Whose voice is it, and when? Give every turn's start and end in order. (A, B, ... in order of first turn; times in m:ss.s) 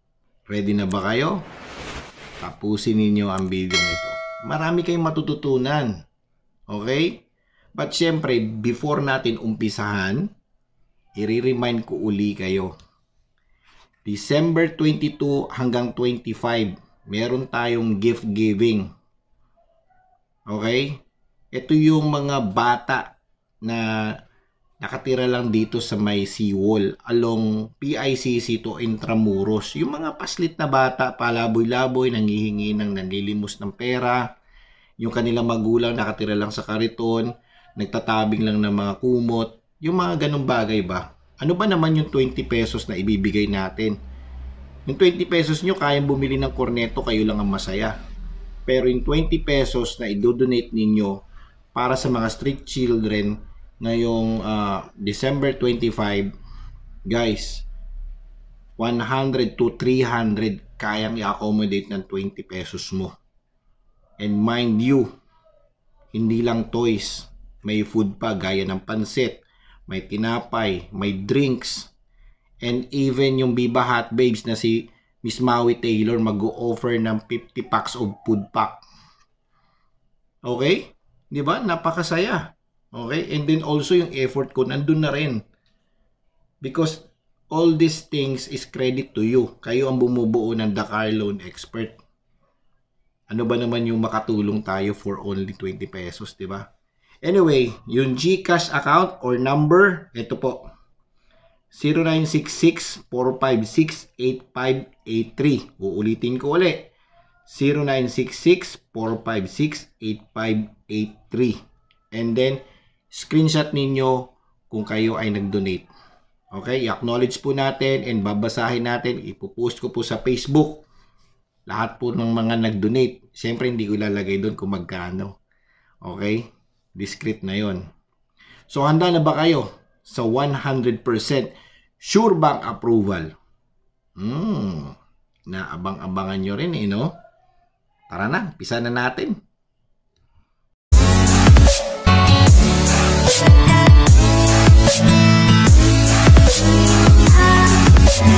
0:00.5-0:01.4 A
0:02.4-0:05.9 A
0:06.7-0:07.2 A
0:07.8-0:10.3 A
0:11.2-0:12.7 A
0:14.0-0:18.9 A
0:20.5-0:21.0 A
0:21.5-0:24.1 A
0:24.8-0:34.2 A
0:35.0-0:44.0 A
0:44.9-0:48.0 A
0:48.7-0:51.2 A
0:51.7-0:56.3 A
0:57.0-0:57.7 A
0:58.8-1:03.1 A
1:04.2-1:05.1 A
1:06.1-1:11.9 A
1:12.6-1:18.8 A
1:20.5-1:25.4 A
1:26.6-1:32.0 A
1:33.3-1:36.7 A
1:37.2-1:40.7 A
1:41.7-1:46.9 A
1:47.5-1:51.6 A
1:52.1-1:55.9 A
1:56.5-2:00.9 A
2:01.7-2:05.3 A
2:06.0-2:06.4 A
2:07.0-2:07.8 A
2:08.7-2:13.3 A
2:14.2-2:15.0 A
2:15.5-2:17.2 A
2:18.1-2:19.3 A